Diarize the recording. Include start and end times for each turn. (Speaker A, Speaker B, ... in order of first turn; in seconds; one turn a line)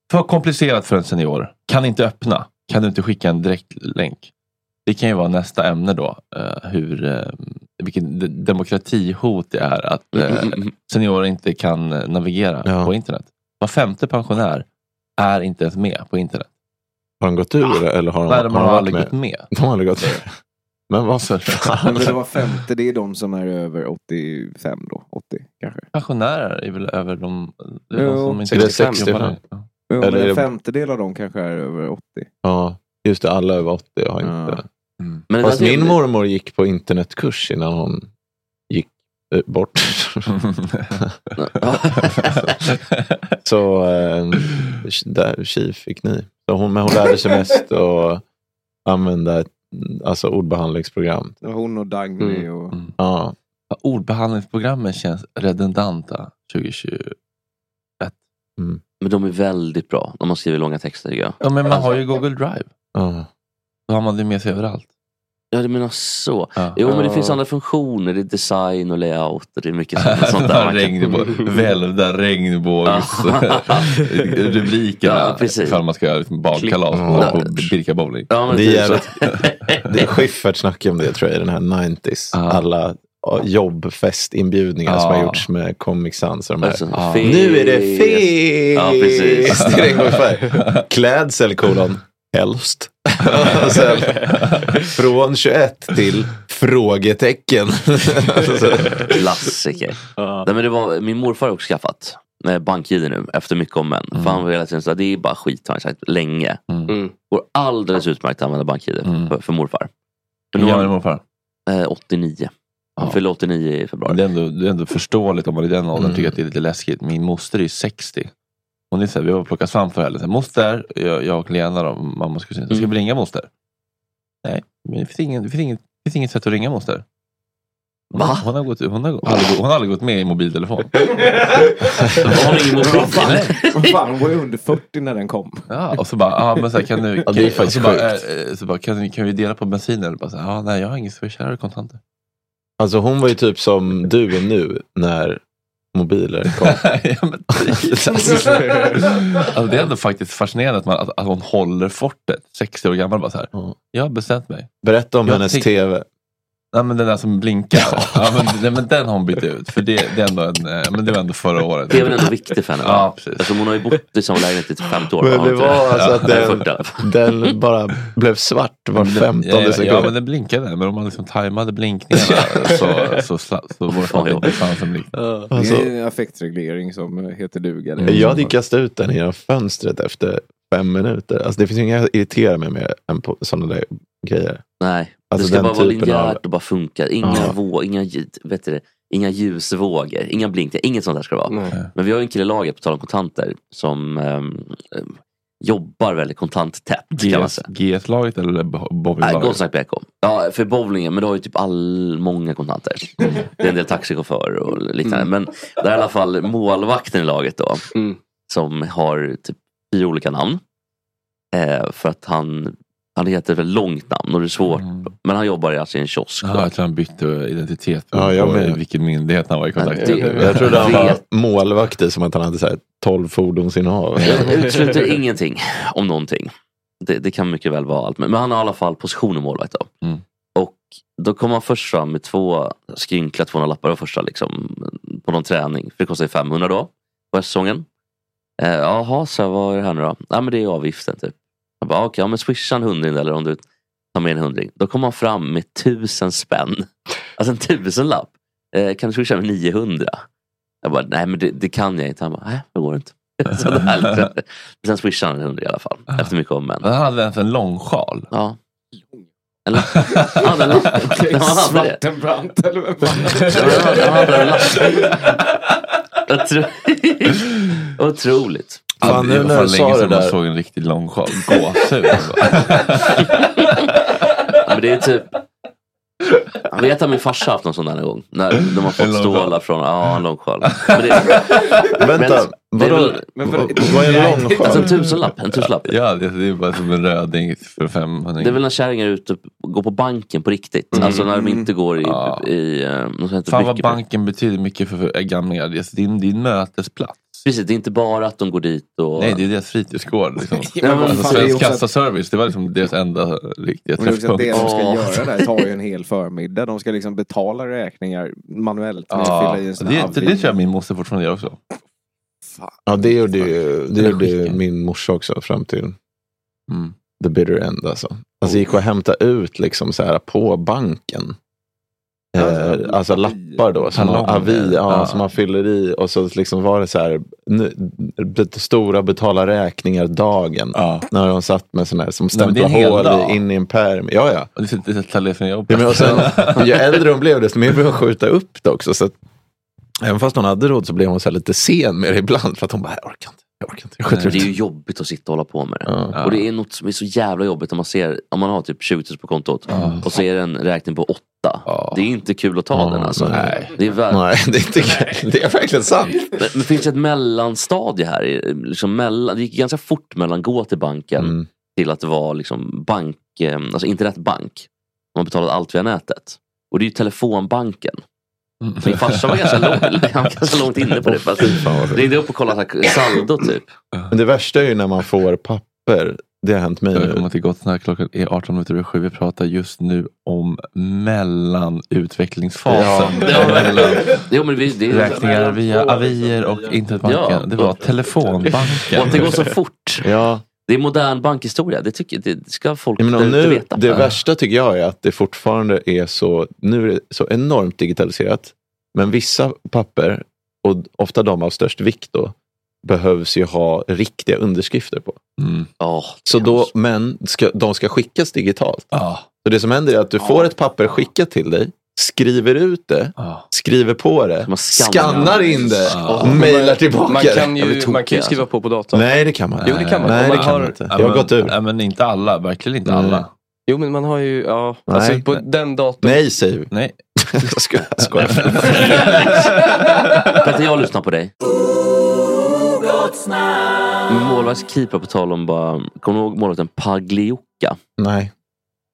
Speaker A: 0.1-4.3
Speaker A: 4.9-14.7
Speaker B: 10.2-10.7
Speaker C: 12.7-12.9
Speaker A: 15.2-16.5
Speaker C: 17.2-20.3
Speaker A: 18.3-19.5
Speaker C: 20.9-22.1
Speaker A: 21.3-22.0
Speaker D: 21.9-25.9
Speaker A: 25.9-29.6
Speaker D: 27.9-28.5
Speaker E: 28.5-29.1
Speaker C: 28.5-29.4
Speaker D: 29.9-32.3
Speaker C: 30.0-30.5
Speaker C: 32.4-34.6
Speaker D: 34.2-34.6
Speaker B: 35.3-36.0
Speaker C: 35.4-38.1
Speaker C: 38.7-40.3
Speaker A: 40.5-40.8
Speaker B: 41.4-42.5
Speaker C: 43.4-48.2
Speaker C: 48.9-51.3
Speaker D: 51.4-52.8
Speaker E: 52.2-52.5
Speaker C: 53.0-53.4
Speaker A: 53.7-57.1
Speaker B: 59.0-62.0
Speaker A: 61.4-62.7
Speaker C: 63.0-63.3
Speaker A: 63.9-64.9
Speaker B: 65.5-71.2
Speaker E: 66.8-67.4
Speaker A: 70.0-78.3
Speaker B: 72.8-74.0
Speaker B: 75.0-75.8
Speaker B: 76.5-77.7
Speaker C: 76.9-77.4
Speaker B: 78.3-79.8
Speaker C: 78.5-79.0
Speaker C: 79.8-99.1
Speaker A: 82.3-82.6
Speaker A: 84.9-85.5
Speaker B: 86.6-89.7
Speaker A: 86.9-87.3
Speaker A: 89.6-90.8
Speaker A: 94.3-94.8
Speaker B: 99.1-106.6
Speaker E: 100.2-100.5
Speaker A: 104.2-104.4
Speaker A: 106.7-106.9
Speaker B: 107.3-109.9
Speaker A: 109.0-109.3
Speaker B: 110.5-111.0
Speaker A: 110.5-111.2
Speaker B: 111.7-114.2
Speaker A: 114.1-118.3
Speaker C: 116.0-116.3
Speaker A: 118.9-123.5
Speaker A: 124.4-127.0
Speaker A: 128.1-131.0
Speaker B: 128.2-128.5
Speaker D: 131.3-131.7
Speaker B: 132.2-134.0
Speaker D: 132.8-135.7
Speaker A: 133.1-133.5
Speaker A: 135.7-142.0
Speaker C: 137.3-138.2
Speaker C: 142.8-145.4
Speaker C: 145.9-146.8
Speaker A: 146.6-154.7
Speaker C: 147.6-148.4
Speaker E: 148.6-149.0
Speaker C: 154.8-156.1
Speaker A: 155.3-155.7
Speaker A: 156.7-162.3
Speaker B: 161.9-167.1
Speaker A: 162.8-163.6
Speaker C: 165.2-170.1
Speaker A: 165.9-166.5
Speaker A: 169.0-175.2
Speaker B: 173.9-174.6
Speaker E: 175.2-175.5
Speaker C: 175.5-175.9
Speaker D: 175.5-178.4
Speaker A: 178.0-178.5
Speaker C: 178.1-184.6
Speaker B: 184.8-197.7
Speaker C: 185.3-186.4
Speaker C: 187.2-187.6
Speaker E: 191.5-191.8
Speaker A: 197.2-199.6
Speaker B: 199.2-207.9
Speaker B: 208.5-210.6
Speaker B: 211.5-216.7
Speaker A: 214.8-215.1
Speaker A: 216.4-221.2
Speaker C: 218.1-218.8
Speaker B: 219.8-221.2
Speaker E: 220.0-220.4
Speaker C: 220.4-224.6
Speaker B: 224.2-229.9
Speaker E: 224.6-225.0
Speaker B: 230.6-237.9
Speaker B: 238.6-243.6
Speaker B: 244.1-250.2
Speaker B: 250.8-256.9
Speaker A: 256.8-258.3
Speaker B: 258.3-258.6
Speaker B: 259.7-262.0
Speaker A: 260.0-260.3
Speaker D: 260.9-265.1
Speaker B: 263.3-265.2
Speaker B: 266.3-268.9
Speaker C: 269.0-270.4
Speaker A: 269.0-273.9
Speaker B: 274.6-275.3
Speaker B: 276.7-283.3
Speaker A: 278.9-279.6
Speaker A: 280.7-281.6
Speaker C: 281.9-284.9
Speaker D: 283.3-284.9
Speaker B: 284.1-286.0
Speaker A: 285.9-288.6
Speaker B: 288.4-294.0
Speaker E: 290.9-291.2
Speaker D: 291.0-291.7
Speaker A: 292.0-292.5
Speaker A: 293.5-297.4
Speaker B: 297.4-299.5
Speaker A: 299.2-304.7
Speaker D: 300.5-301.9
Speaker B: 300.8-301.6
Speaker D: 304.0-310.6
Speaker B: 304.5-305.5
Speaker A: 309.1-311.6
Speaker C: 312.9-316.0
Speaker A: 314.0-314.6
Speaker C: 317.2-321.4
Speaker C: 322.4-334.5
Speaker D: 322.4-324.0
Speaker A: 323.9-325.2
Speaker A: 332.3-333.4
Speaker A: 334.6-336.7
Speaker C: 335.7-339.1
Speaker C: 340.0-344.5
Speaker A: 344.0-344.5
Speaker B: 344.3-354.2
Speaker C: 345.9-346.2
Speaker A: 346.1-346.4
Speaker A: 349.7-350.1
Speaker C: 349.8-350.0
Speaker A: 351.7-352.1
Speaker C: 352.7-356.3
Speaker A: 353.3-353.8
Speaker B: 356.3-368.0
Speaker C: 361.2-361.5
Speaker A: 368.6-370.0
Speaker B: 368.8-373.7
Speaker C: 371.1-372.0
Speaker C: 374.1-377.2
Speaker A: 376.9-384.3
Speaker C: 382.7-383.6
Speaker B: 383.2-385.4
Speaker A: 384.9-389.3
Speaker D: 385.7-386.1
Speaker B: 387.0-390.1
Speaker E: 389.2-389.5
Speaker C: 390.0-390.4
Speaker B: 390.7-394.0
Speaker C: 393.0-405.2
Speaker A: 405.4-405.7
Speaker B: 405.8-406.7
Speaker C: 406.2-408.9
Speaker A: 408.9-409.2
Speaker C: 409.4-418.0
Speaker D: 410.2-410.5
Speaker A: 413.2-413.4
Speaker B: 414.4-416.5
Speaker A: 415.9-416.3
Speaker E: 416.1-419.1
Speaker B: 418.0-418.4
Speaker C: 418.9-421.6
Speaker A: 419.6-423.3
Speaker E: 419.6-420.8
Speaker C: 422.9-423.3
Speaker E: 423.7-426.3
Speaker C: 424.9-425.4
Speaker C: 426.0-426.7
Speaker A: 426.7-427.0
Speaker C: 427.2-429.1
Speaker A: 428.2-430.1
Speaker B: 428.7-429.5
Speaker B: 430.3-431.3
Speaker B: 434.1-437.8
Speaker C: 438.0-438.3